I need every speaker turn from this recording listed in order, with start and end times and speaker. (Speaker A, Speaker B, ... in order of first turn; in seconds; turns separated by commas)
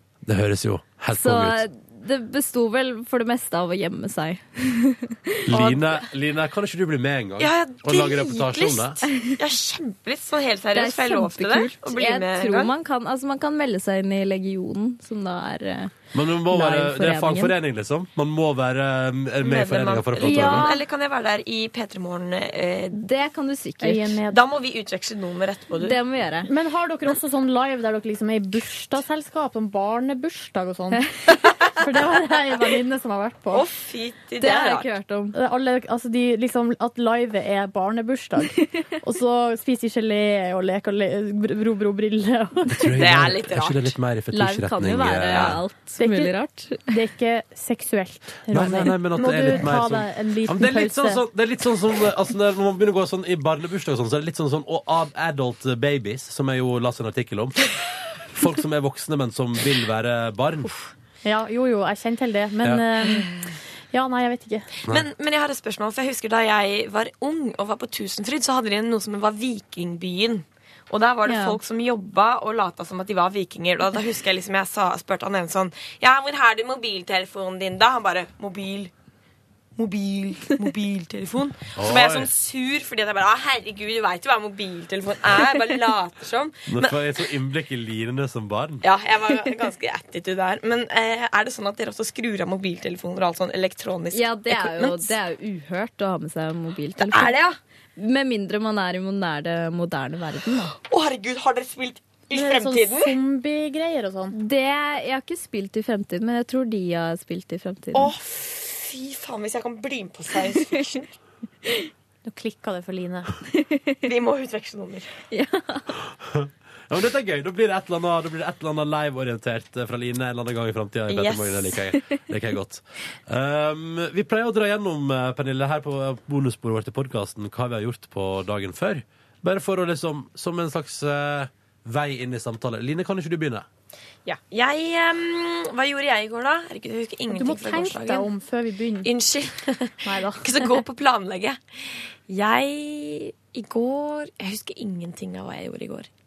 Speaker A: 0.2-1.6, Speaker B: 1.1-5.8, Speaker A: 5.5-9.0, Speaker C: 7.4-12.7, Speaker B: 9.1-9.3, Speaker B: 10.7-15.9, Speaker A: 16.1-20.7, Speaker B: 16.5-17.5, Speaker C: 19.4-23.0, Speaker B: 20.2-20.8, Speaker B: 22.9-24.2, Speaker D: 23.8-24.4, Speaker C: 24.3-26.0, Speaker B: 25.8-26.5, Speaker D: 26.4-33.6, Speaker C: 33.5-34.9, Speaker B: 34.4-35.4, Speaker D: 35.3-42.9, Speaker A: 42.7-45.6, Speaker C: 43.0-44.0, Speaker B: 44.3-46.8, Speaker C: 45.3-45.6, Speaker D: 46.0-51.2, Speaker A: 48.5-60.7, Speaker D: 61.2-63.3, Speaker D: 63.9-64.7, Speaker C: 64.9-78.9, Speaker B: 71.3-71.6, Speaker C: 79.8-87.0, Speaker A: 81.8-82.3, Speaker A: 86.7-88.8, Speaker C: 88.8-95.2, Speaker B: 94.1-97.4, Speaker C: 97.0-97.6, Speaker B: 98.0-100.8, Speaker C: 100.8-103.2, Speaker D: 102.3-104.3, Speaker B: 104.3-108.1, Speaker C: 107.9-111.1, Speaker D: 112.2-113.3, Speaker B: 113.5-114.0, Speaker C: 114.0-115.1, Speaker B: 115.3-116.0, Speaker A: 116.1-133.7, Speaker C: 121.1-121.8, Speaker C: 134.3-138.3, Speaker D: 137.3-139.1, Speaker C: 139.0-141.6, Speaker D: 140.0-140.8, Speaker C: 142.3-146.1